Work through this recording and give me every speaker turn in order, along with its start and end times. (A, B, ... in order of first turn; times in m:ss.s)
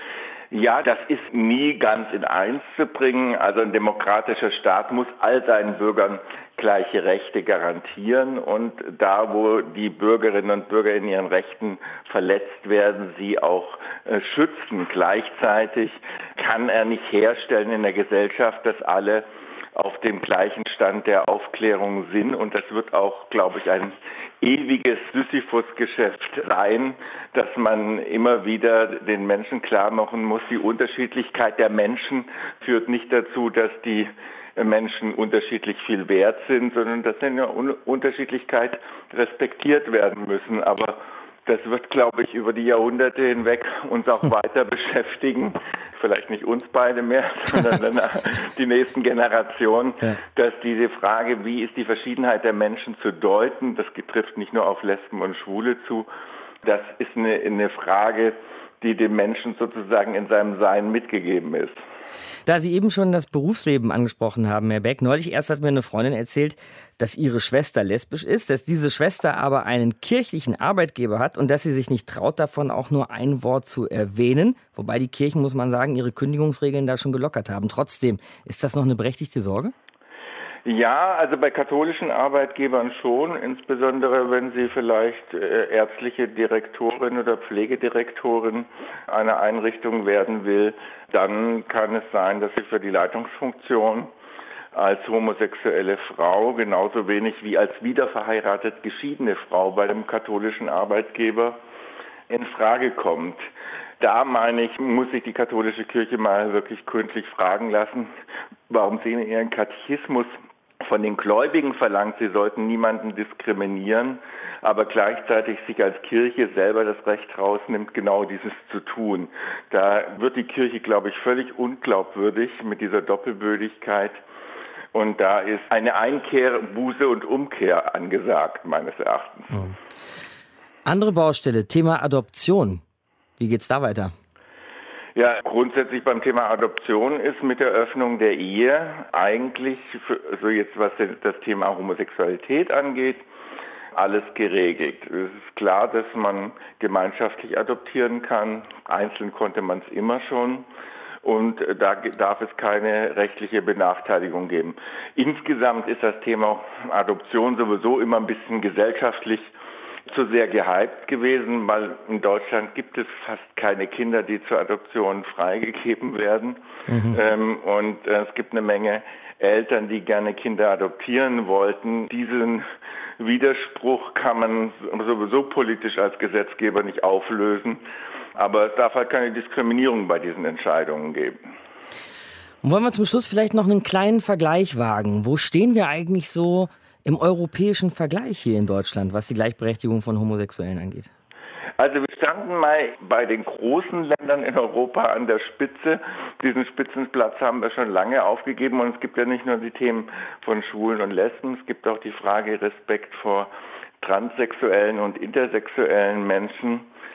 0:00.5-0:56.1 A
0:56.6-1:01.8 A
1:02.4-1:19.7 B
1:20.6-1:34.1 A
1:34.7-1:41.6 A
1:42.3-1:43.4 A
1:44.0-1:48.1 A
1:48.7-2:04.2 A
2:04.9-2:09.5 A
2:10.9-2:12.8 B
2:13.4-2:14.1 B
2:15.2-2:23.2 A
2:23.9-2:30.7 A
2:31.2-2:39.5 A
2:40.1-2:52.7 A
2:46.9-2:47.2 B
2:53.2-2:57.8 A
2:58.4-3:01.4 A
3:02.6-3:11.1 B
3:11.8-3:23.5 A
3:24.0-3:26.9 A